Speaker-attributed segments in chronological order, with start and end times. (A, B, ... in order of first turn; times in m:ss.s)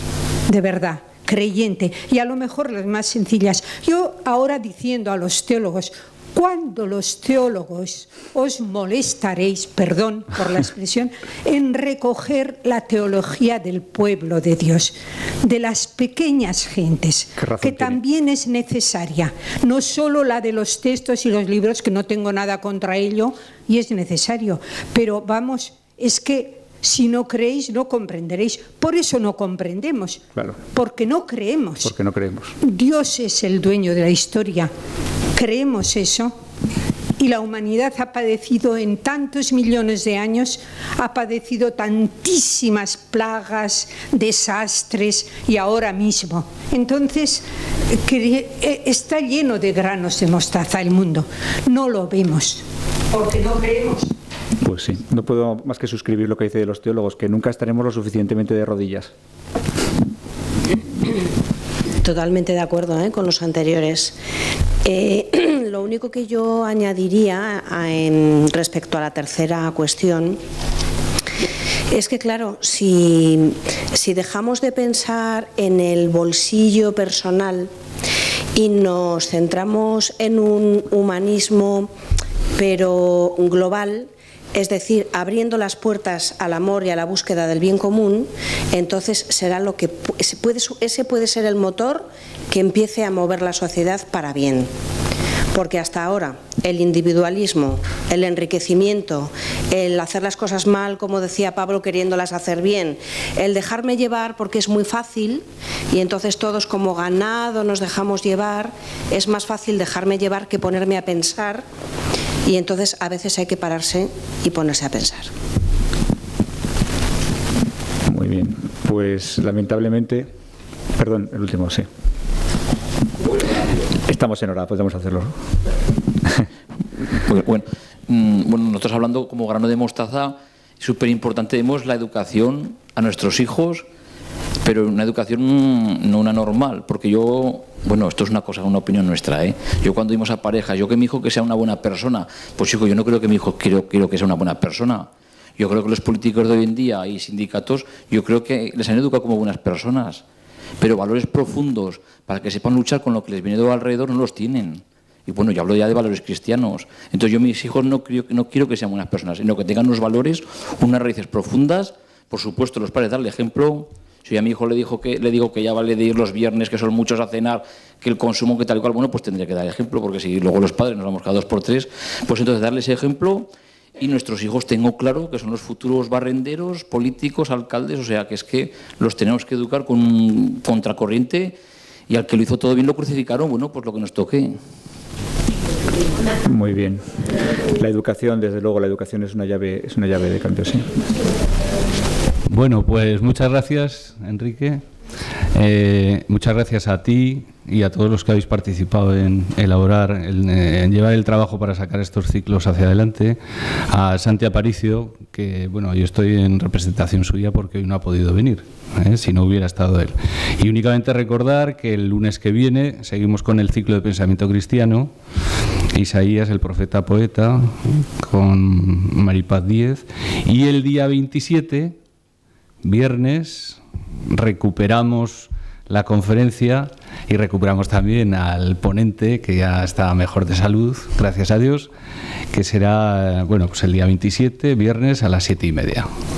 0:00.5-0:31.9 A
0:17.4-0:18.0 B
0:31.8-0:32.5 B
0:32.6-0:34.7 A
0:35.3-0:36.4 A
0:37.2-0:54.1 A
0:54.6-0:59.1 B
1:02.0-1:04.1 C
1:04.8-1:10.4 C
1:11.9-1:17.7 C
1:18.6-1:21.9 C
1:22.6-1:34.7 C
1:35.5-1:51.6 C
1:52.4-1:55.3 C
1:58.0-2:00.3 B
2:01.0-2:01.9 B
2:04.0-2:05.5 B
2:07.3-2:13.8 D
2:14.6-2:30.2 D
2:30.8-3:01.6 D
3:02.1-3:04.6 D
3:06.4-3:11.0 B
3:12.5-3:14.8 E
3:15.5-3:35.1 E
3:35.9-3:42.0 E
3:42.8-3:51.9 E
3:52.5-3:56.1 E